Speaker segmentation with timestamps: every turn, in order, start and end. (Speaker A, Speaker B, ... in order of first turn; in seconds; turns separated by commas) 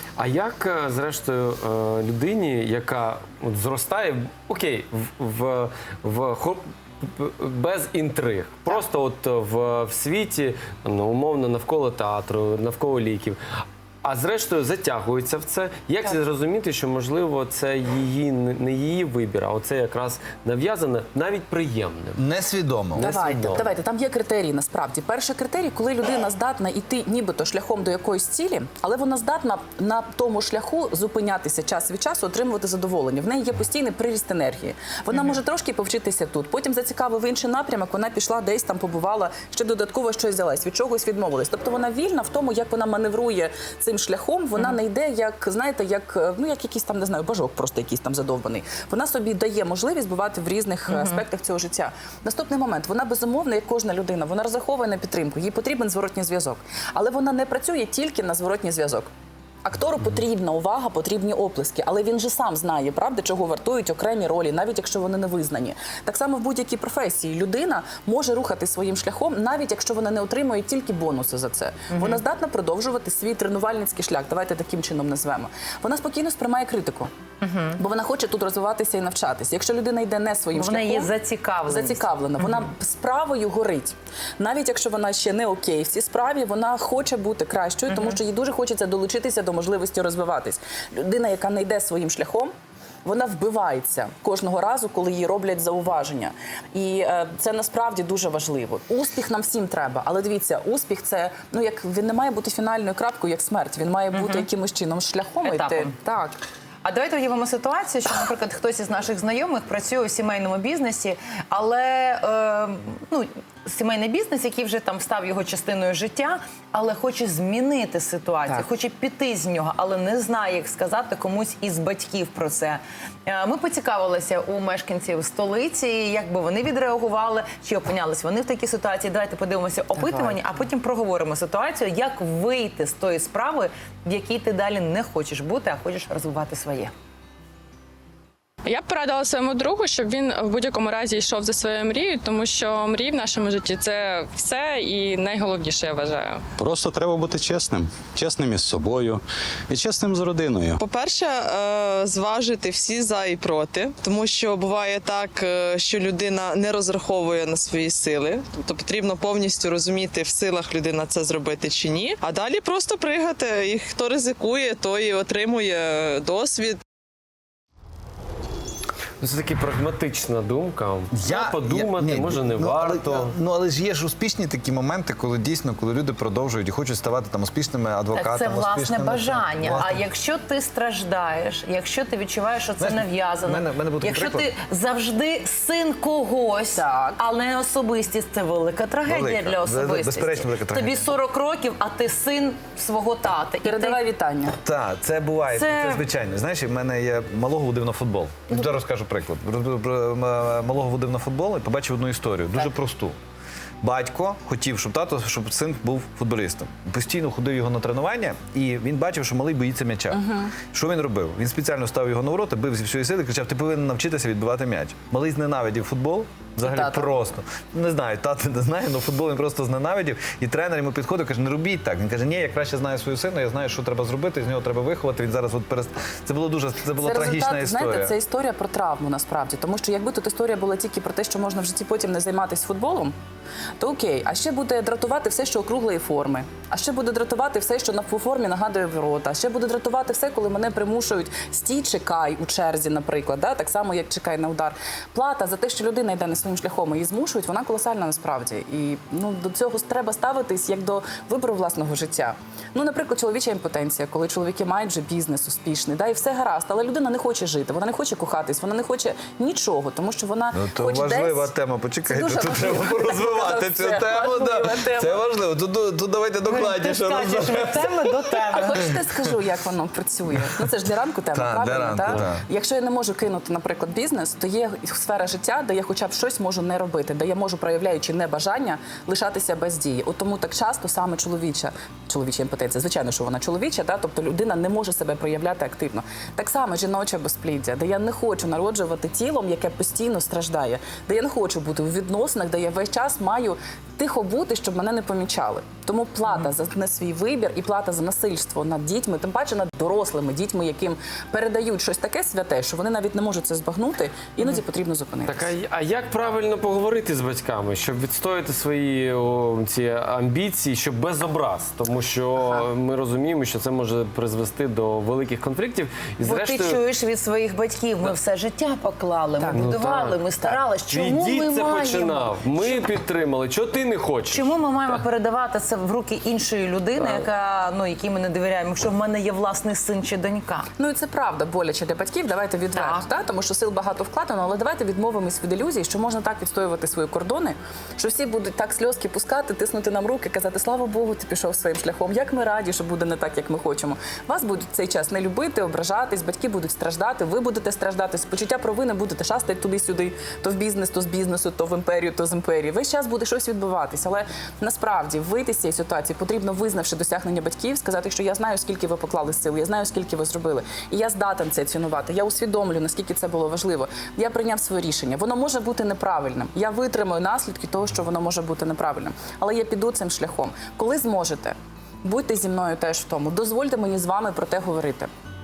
Speaker A: 0.2-13.4, Speaker A: 14.0-22.2, Speaker B: 22.2-23.1, Speaker A: 22.9-23.7, Speaker C: 23.0-59.1, Speaker D: 50.9-51.2, Speaker C: 59.6-77.1, Speaker D: 71.9-72.2, Speaker D: 77.4-77.8, Speaker C: 77.8-81.1, Speaker D: 80.5-82.1, Speaker C: 81.7-92.5, Speaker C: 93.0-106.4, Speaker D: 104.2-104.5, Speaker D: 105.4-105.9, Speaker D: 106.8-136.9, Speaker C: 130.1-130.3, Speaker E: 138.6-146.5, Speaker F: 146.6-150.7, Speaker G: 150.8-166.8, Speaker A: 169.2-173.3, Speaker B: 171.1-180.0, Speaker D: 178.1-194.0, Speaker B: 182.8-184.5, Speaker C: 186.7-187.2, Speaker B: 189.1-191.1, Speaker C: 193.6-194.6, Speaker B: 194.6-203.1, Speaker D: 195.5-196.0, Speaker B: 203.8-228.1, Speaker C: 210.1-210.6, Speaker C: 216.6-217.1, Speaker C: 227.0-233.1, Speaker C: 233.8-261.5, Speaker B: 260.5-268.3, Speaker C: 262.0-265.2, Speaker D: 266.4-268.9, Speaker C: 268.5-305.5, Speaker B: 271.3-272.4, Speaker A: 305.3-316.8, Speaker D: 316.2-322.6, Speaker C: 319.4-319.7, Speaker A: 319.5-325.0, Speaker D: 324.3-330.7, Speaker A: 327.0-327.2, Speaker C: 330.8-375.1, Speaker D: 332.7-333.0